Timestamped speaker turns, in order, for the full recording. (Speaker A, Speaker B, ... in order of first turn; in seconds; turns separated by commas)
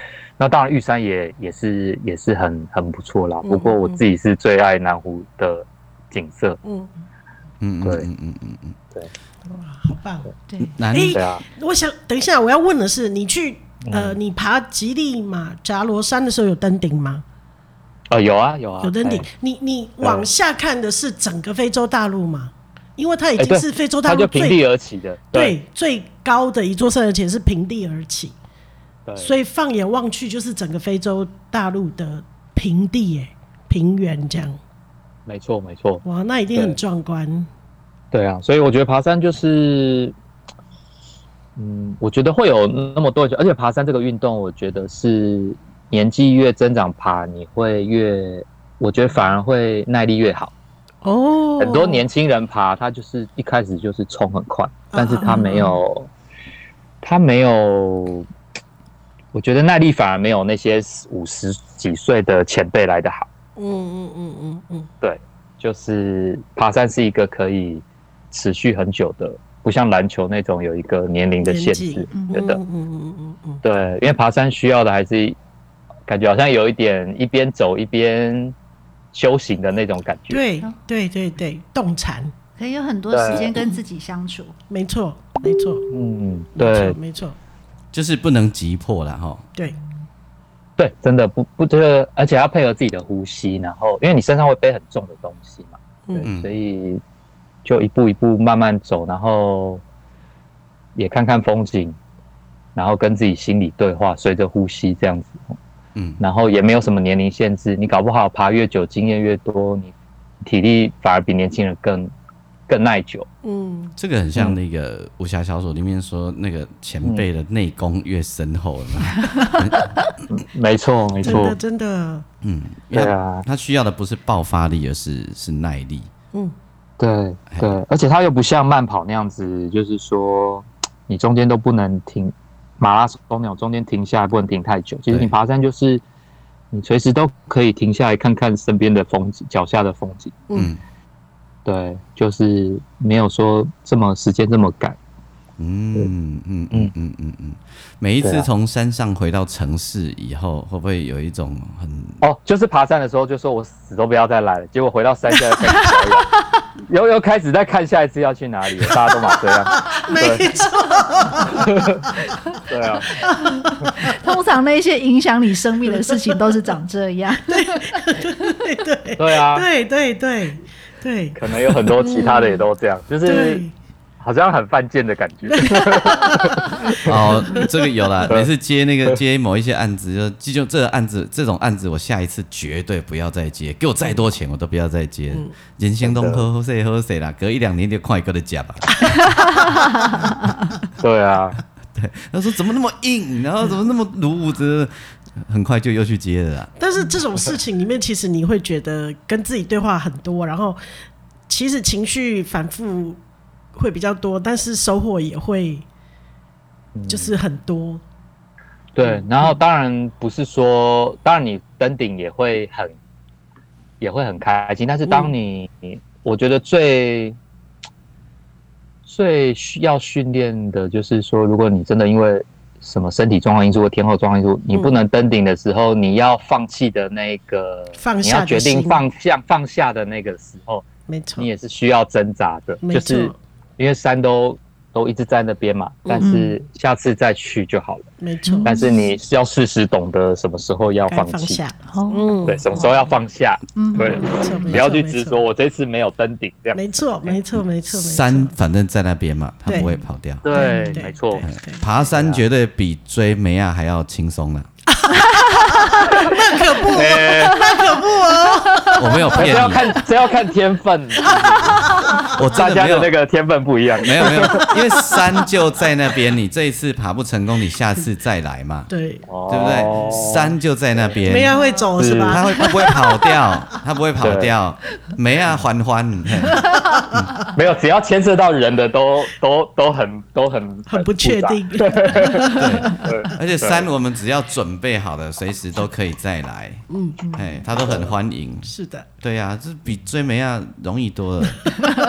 Speaker A: 0.4-6.6, Speaker B: 3.4-4.0, Speaker B: 6.6-6.9, Speaker C: 7.6-8.8, Speaker B: 9.5-10.3, Speaker D: 10.5-10.7, Speaker C: 10.6-11.2, Speaker B: 10.9-17.2, Speaker A: 11.1-11.4, Speaker A: 13.8-14.2, Speaker A: 18.1-19.3, Speaker B: 18.8-24.6, Speaker A: 20.0-20.3, Speaker A: 23.4-25.6, Speaker B: 25.3-28.4, Speaker A: 29.1-29.3, Speaker B: 29.2-34.6, Speaker A: 35.2-36.0, Speaker B: 36.0-37.5, Speaker A: 38.1-40.1, Speaker A: 41.6-50.5, Speaker B: 51.0-52.0, Speaker A: 51.6-56.1, Speaker B: 54.9-55.7, Speaker D: 55.3-55.6, Speaker A: 57.0-58.3, Speaker A: 59.3-63.3, Speaker B: 63.6-64.9, Speaker A: 65.0-72.6, Speaker B: 71.4-73.6, Speaker D: 72.1-72.5, Speaker A: 73.6-75.4, Speaker A: 76.1-78.5, Speaker A: 79.1-80.4, Speaker B: 80.3-82.3, Speaker D: 82.6-84.5, Speaker A: 83.1-83.6, Speaker B: 84.7-85.9, Speaker A: 85.9-87.0, Speaker B: 86.5-87.3, Speaker C: 87.9-89.5, Speaker A: 90.8-97.0, Speaker C: 96.2-96.5, Speaker A: 97.6-99.8, Speaker A: 101.0-102.0, Speaker A: 102.8-105.4, Speaker C: 105.9-106.2, Speaker A: 106.2-109.9, Speaker A: 110.4-112.1, Speaker A: 112.7-113.3, Speaker B: 113.4-113.9, Speaker C: 114.0-120.0, Speaker A: 120.3-121.6, Speaker B: 121.2-122.2, Speaker C: 122.4-126.1, Speaker A: 122.9-123.4, Speaker A: 127.0-136.0, Speaker C: 127.5-127.8, Speaker A: 136.7-140.4, Speaker C: 140.5-140.8, Speaker A: 141.6-145.0, Speaker C: 145.6-152.2, Speaker A: 148.2-148.5, Speaker A: 152.2-156.3, Speaker A: 156.9-160.5, Speaker B: 159.7-162.4, Speaker A: 161.5-163.1, Speaker B: 163.2-164.2, Speaker D: 163.3-168.5, Speaker B: 167.4-172.5, Speaker A: 169.2-169.7, Speaker A: 171.3-173.6, Speaker B: 173.2-173.7, Speaker A: 174.2-177.6, Speaker B: 175.5-176.6, Speaker C: 177.0-189.7, Speaker A: 178.2-178.5, Speaker A: 186.0-186.5, Speaker A: 191.0-191.6, Speaker C: 191.9-196.7, Speaker B: 196.8-200.8, Speaker B: 201.5-203.2, Speaker B: 203.7-205.8, Speaker A: 206.9-207.3, Speaker B: 207.1-208.0, Speaker A: 208.9-212.9, Speaker B: 209.1-209.5, Speaker A: 214.0-217.4, Speaker B: 215.1-215.3, Speaker A: 219.1-230.8, Speaker B: 228.0-229.0, Speaker B: 231.1-231.5, Speaker A: 231.4-238.1, Speaker B: 232.8-233.4, Speaker B: 236.0-236.3, Speaker D: 236.2-236.5, Speaker B: 238.2-238.9, Speaker D: 238.4-238.9, Speaker A: 238.6-241.6, Speaker B: 241.1-242.8, Speaker D: 241.9-243.0, Speaker A: 242.4-247.4, Speaker D: 243.8-244.6, Speaker B: 244.2-245.4, Speaker B: 246.7-248.5, Speaker C: 247.6-250.4, Speaker B: 249.7-249.9, Speaker A: 250.4-251.5, Speaker D: 250.5-251.0, Speaker B: 250.6-251.9, Speaker C: 251.4-254.7, Speaker A: 252.0-252.4, Speaker B: 254.9-259.3, Speaker D: 255.3-256.0, Speaker A: 256.9-257.8, Speaker D: 257.4-257.8, Speaker D: 258.7-259.0, Speaker C: 258.9-259.9, Speaker A: 259.3-264.8, Speaker B: 261.2-262.3, Speaker C: 262.2-263.1, Speaker C: 264.0-268.9, Speaker B: 264.7-265.2, Speaker B: 268.9-269.2, Speaker A: 269.3-270.5, Speaker C: 269.5-271.5, Speaker B: 271.2-272.6, Speaker D: 271.5-271.9, Speaker A: 272.0-272.4, Speaker C: 272.3-277.3, Speaker D: 272.6-273.1, Speaker A: 274.2-274.5, Speaker D: 276.7-277.1, Speaker A: 277.5-283.9, Speaker B: 280.9-282.3, Speaker C: 282.5-291.7, Speaker B: 286.9-287.2, Speaker D: 287.2-287.6, Speaker A: 287.7-288.1, Speaker B: 288.6-289.1